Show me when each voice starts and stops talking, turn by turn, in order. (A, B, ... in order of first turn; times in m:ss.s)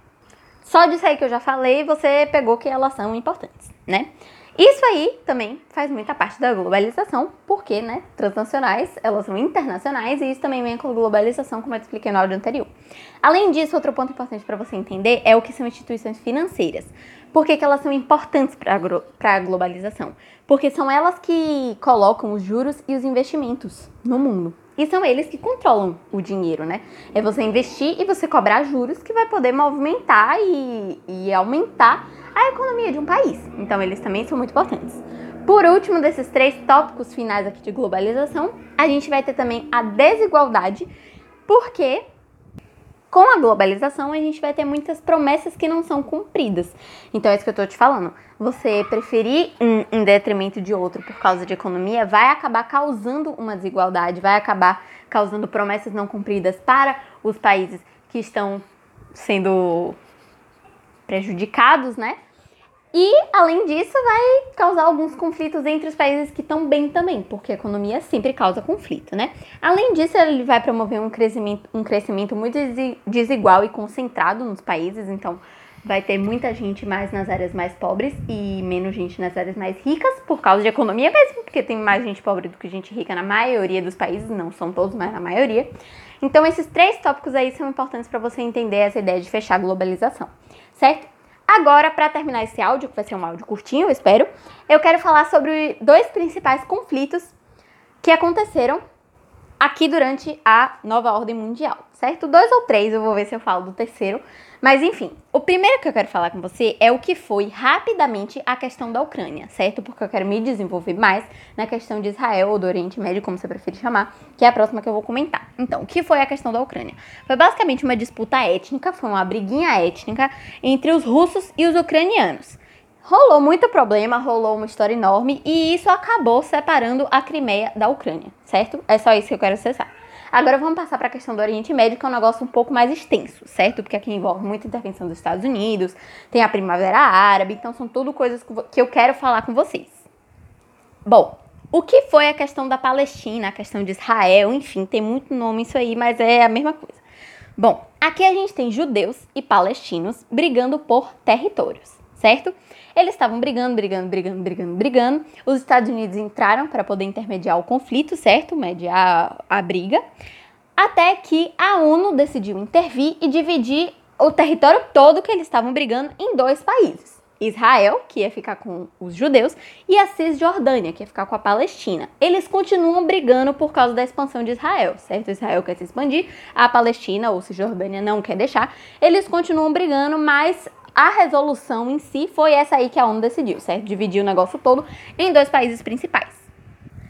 0:00.6-0:12.7 A
0:13.2-0:40.9 A
0:41.5-0:42.0 A
0:43.1-0:58.6 A
0:59.1-1:00.0 A
1:01.1-1:02.2 A
1:02.9-1:25.7 A
1:26.2-1:37.3 A
1:38.0-1:38.8 A
1:39.6-2:20.1 A
2:21.1-2:27.0 A
2:27.6-2:40.0 A
2:40.8-3:06.5 A